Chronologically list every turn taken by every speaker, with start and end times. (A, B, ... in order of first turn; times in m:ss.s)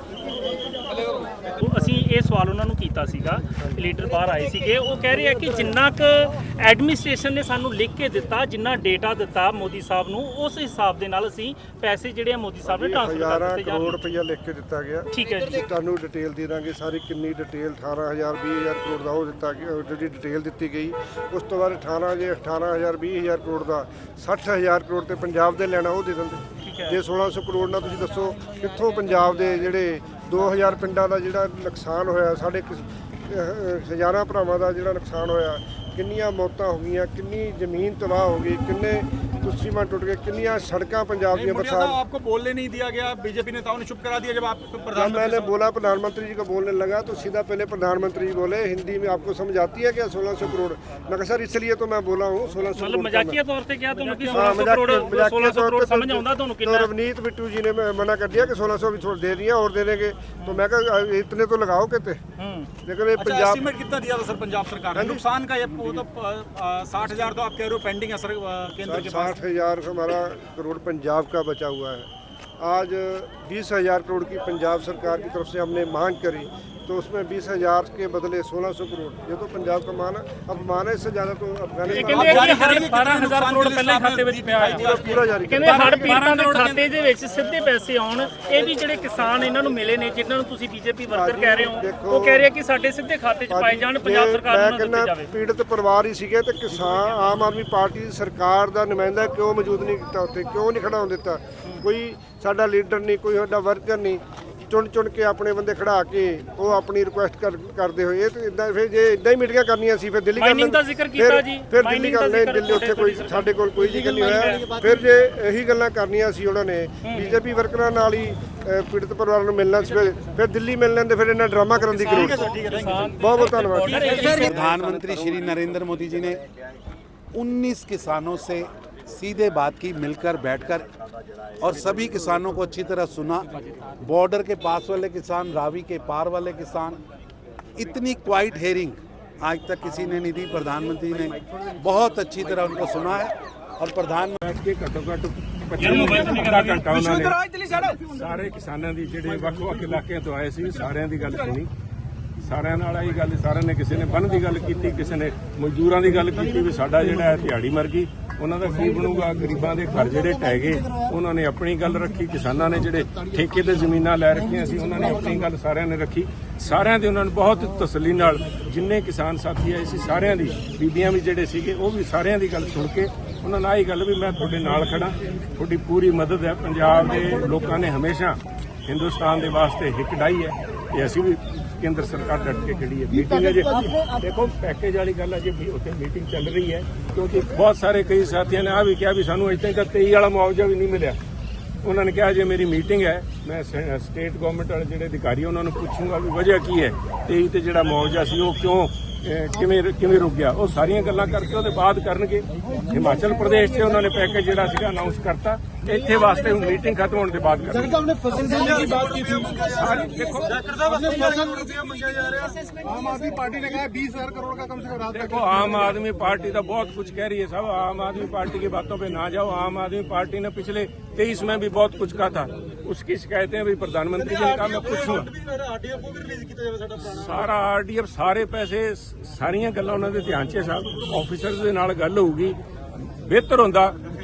0:01.6-0:14.0 A
0:12.6-0:42.0 B
0:15.1-0:15.6 A
0:26.6-0:27.0 A
0:41.3-0:45.5 C
0:44.9-0:53.4 B
0:52.8-0:56.9 A
0:54.3-1:02.2 B
1:02.4-1:02.7 A
1:02.8-1:03.6 B
1:03.2-1:09.4 C
1:04.9-1:05.2 B
1:05.7-1:06.0 B
1:08.8-1:12.1 B
1:12.6-1:22.8 B
1:21.9-1:26.8 C
1:21.9-1:24.9 A
1:24.7-1:26.2 B
1:25.5-1:35.3 A
1:31.1-1:32.5 B
1:33.5-2:04.4 B
1:50.4-1:54.8 A
1:57.0-1:57.4 A
2:01.8-2:04.4 C
2:02.0-2:04.5 A
2:04.4-2:06.4 D
2:07.3-2:10.9 D
2:11.6-2:17.0 D
2:17.7-2:24.4 D
2:24.4-2:31.7 E
2:25.8-2:27.8 C
2:32.4-3:11.2 E
3:11.8-3:31.3 E
3:28.2-3:32.7 C
3:35.0-3:45.3 E
3:44.2-3:47.5 C
3:47.0-3:52.6 E
3:53.2-3:54.0 E